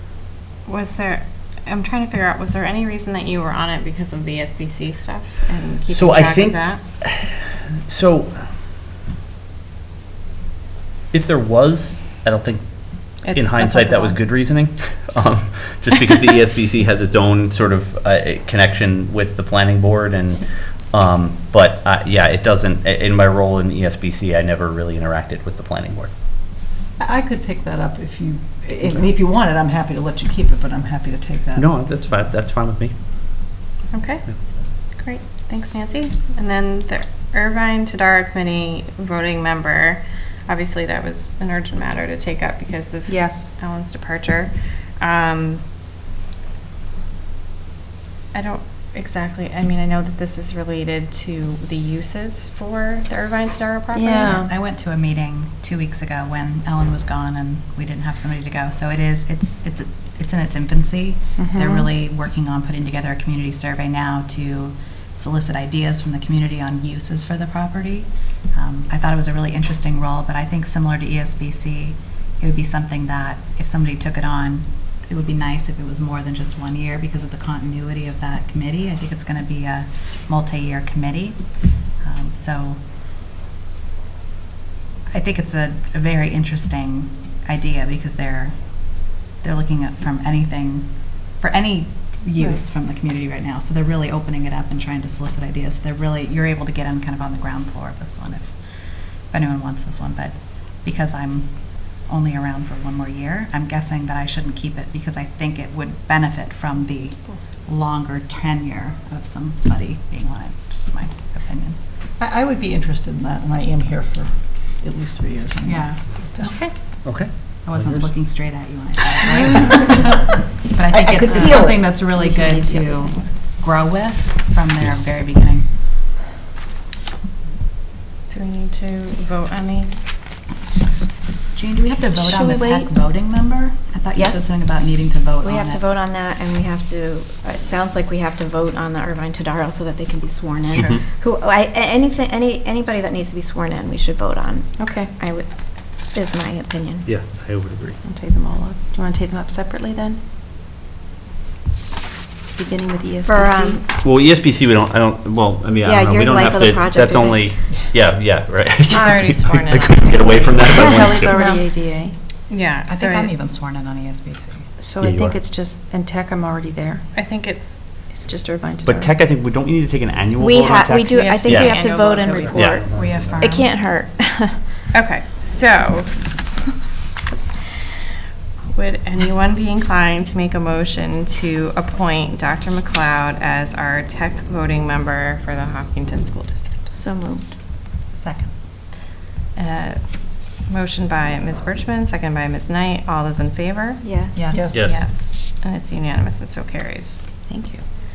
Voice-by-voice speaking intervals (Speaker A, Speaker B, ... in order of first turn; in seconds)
Speaker A: 0.7-6.8, 13.2-14.3, 33.9-45.6, 48.3-54.4, 128.3-130.1, 158.8-161.6, 162.5-163.3, 167.1-167.8, 171.1-172.7, 174.9-176.3, 177.3-186.9, 189.5-194.0, 194.6-197.2
Speaker B: 5.9-8.5, 11.1-26.1, 31.5-33.0, 117.0-118.1, 140.7-141.0, 147.0-148.0, 154.0-161.4, 165.0-165.4, 168.8-171.8, 172.5-173.4, 194.7-195.0
Speaker C: 27.0-31.7, 112.2-116.7, 194.5-194.9
Speaker D: 43.1-43.5, 53.9-54.5, 61.4-61.9, 116.4-116.7, 121.1-123.3, 144.8-145.1, 148.0-150.2, 152.5-153.8, 158.9-159.2, 160.7-162.2, 164.8-167.1, 168.1-169.1, 197.5-197.8
Speaker E: 54.2-82.8, 85.1-111.8, 115.7-116.0, 117.6-125.7, 131.5-135.8, 162.9-164.7, 172.8-173.7, 188.1-188.5, 194.3-195.0
Speaker F: 132.1-132.9, 134.1-134.5, 135.4-147.1, 153.2-153.8, 155.8-157.6, 160.8-161.4, 170.4-174.8, 186.9-187.5, 194.0-194.6